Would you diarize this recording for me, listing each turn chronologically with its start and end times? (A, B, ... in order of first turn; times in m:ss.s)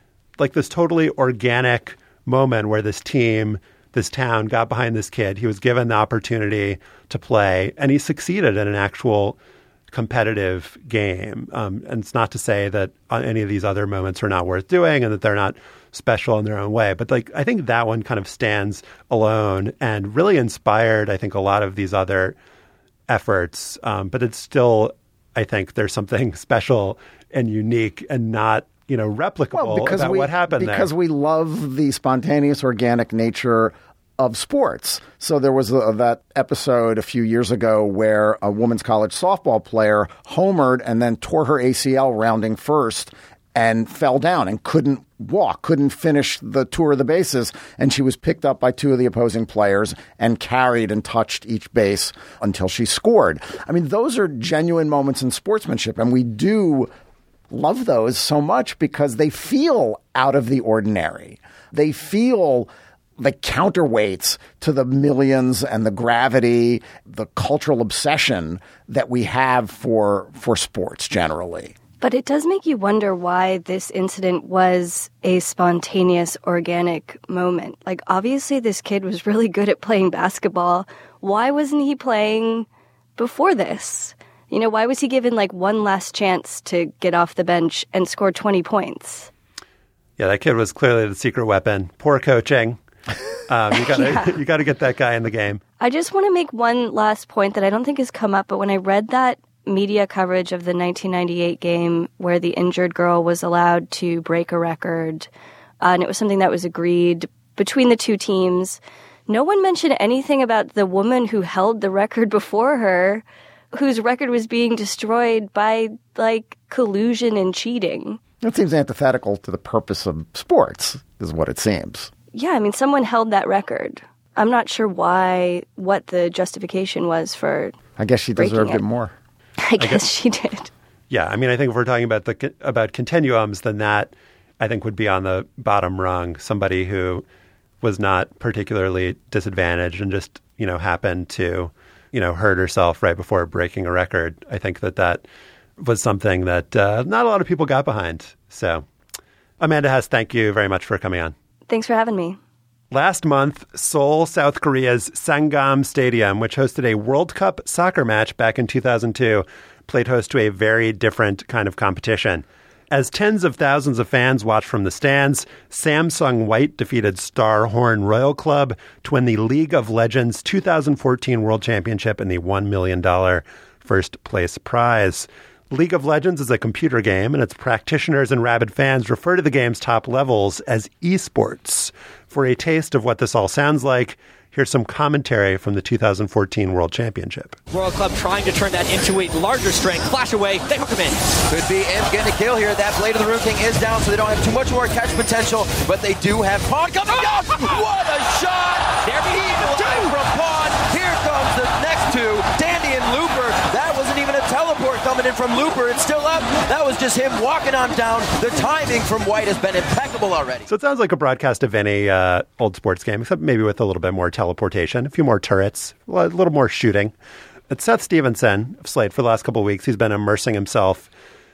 0:00.4-0:09.4 A
0:09.9-0:22.4 A
0:23.1-0:30.9 A
0:29.5-0:56.9 B
0:57.5-1:11.7 B
1:12.0-1:29.3 C
1:30.2-1:32.8 A
1:33.5-1:35.6 A
1:33.8-1:34.4 C
1:35.8-1:45.3 C
1:45.8-1:58.2 C
1:58.4-2:02.1 B
2:02.3-2:07.7 C
2:08.0-2:09.1 B
2:08.4-2:08.8 C
2:09.6-2:10.7 C
2:09.8-2:10.0 A
2:11.1-2:17.2 A
2:17.8-2:25.2 A
2:25.8-2:28.8 A
2:29.6-2:31.3 A
2:31.7-2:32.4 C
2:32.9-3:07.6 A
3:07.7-3:11.2 D
3:11.5-3:30.6 E
3:19.8-3:20.1 D
3:30.7-3:37.1 A
3:37.7-3:41.1 A